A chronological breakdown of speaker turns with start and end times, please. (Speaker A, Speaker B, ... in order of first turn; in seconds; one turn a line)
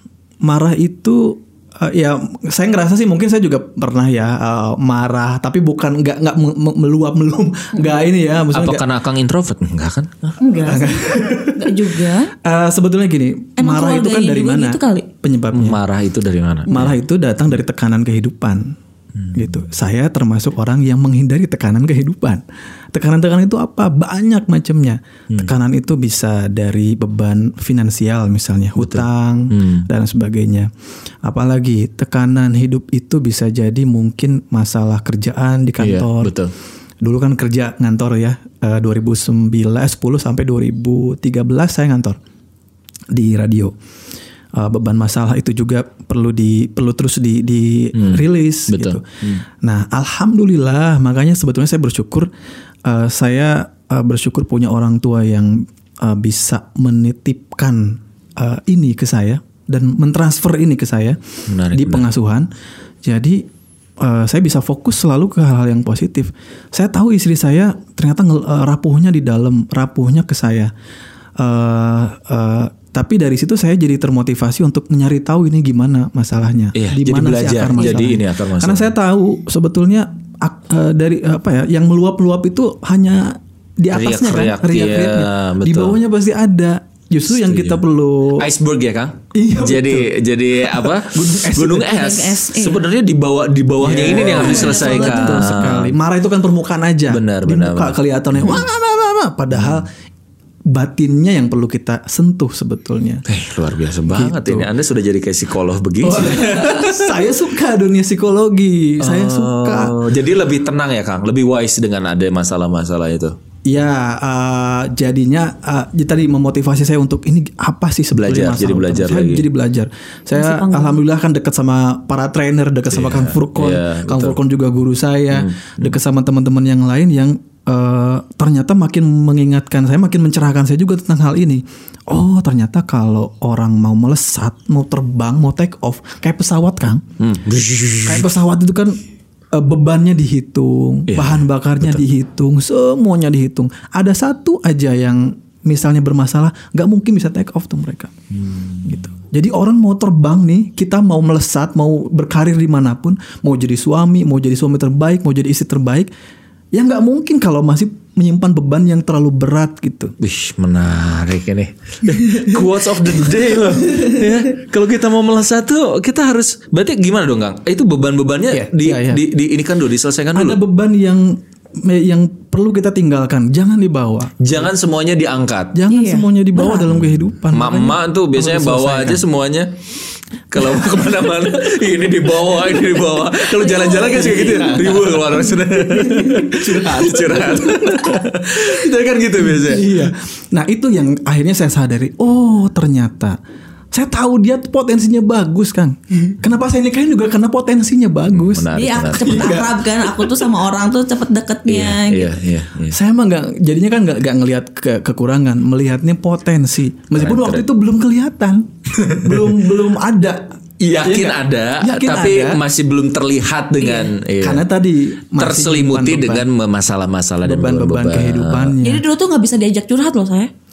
Speaker A: 0.4-8.8
Speaker B: 8.5-10.4
Speaker C: 10.4-11.0
Speaker A: 10.7-15.8
Speaker C: 11.6-12.3
Speaker C: 13.6-15.1
Speaker B: 15.5-16.9
Speaker A: 16.7-18.8
Speaker B: 19.1-19.5
Speaker A: 19.3-30.7
Speaker B: 28.8-29.9
Speaker A: 31.2-36.3
Speaker B: 35.8-36.5
Speaker A: 37.0-42.2
Speaker A: 43.1-43.7
Speaker A: 44.5-49.0
Speaker B: 47.9-49.4
Speaker A: 49.5-52.3
Speaker A: 52.9-61.2
Speaker B: 61.5-62.1
Speaker A: 61.7-62.5
Speaker A: 63.0-63.5
Speaker A: 64.0-70.7
Speaker A: 71.4-88.5
Speaker B: 76.7-78.9
Speaker B: 83.9-86.0
Speaker B: 87.3-87.8
Speaker B: 88.3-95.9
Speaker A: 89.3-92.0
Speaker C: 91.8-92.8
Speaker A: 93.8-99.9
Speaker C: 94.0-95.5
Speaker B: 97.1-98.6
Speaker B: 99.5-99.8
Speaker A: 100.7-103.2
Speaker B: 103.2-107.1
Speaker A: 104.1-104.7
Speaker A: 106.0-110.0
Speaker B: 109.0-113.3
Speaker A: 113.7-137.0
Speaker B: 118.1-119.4
Speaker C: 120.3-121.0
Speaker B: 122.9-124.4
Speaker B: 125.3-126.0
Speaker B: 137.2-138.3
Speaker A: 138.0-139.0
Speaker A: 139.5-148.1
Speaker B: 141.1-142.0
Speaker B: 148.3-149.2
Speaker A: 148.8-156.1
Speaker A: 156.7-160.1
Speaker B: 160.2-170.6
Speaker A: 168.5-169.2
Speaker A: 170.3-174.3
Speaker B: 174.4-175.8
Speaker A: 175.7-179.2
Speaker C: 175.9-176.9
Speaker B: 177.5-179.7
Speaker B: 180.5-190.1
Speaker C: 183.6-184.7
Speaker A: 184.0-188.7
Speaker A: 189.4-193.4
Speaker A: 193.9-200.3
Speaker B: 198.3-199.6
Speaker C: 198.7-202.3
Speaker B: 201.7-203.0
Speaker A: 202.9-212.6
Speaker B: 207.1-207.6
Speaker B: 209.0-209.5
Speaker B: 210.8-214.7
Speaker C: 213.8-214.1
Speaker A: 214.4-216.4
Speaker B: 215.4-218.8
Speaker A: 217.4-219.0
Speaker C: 218.8-220.5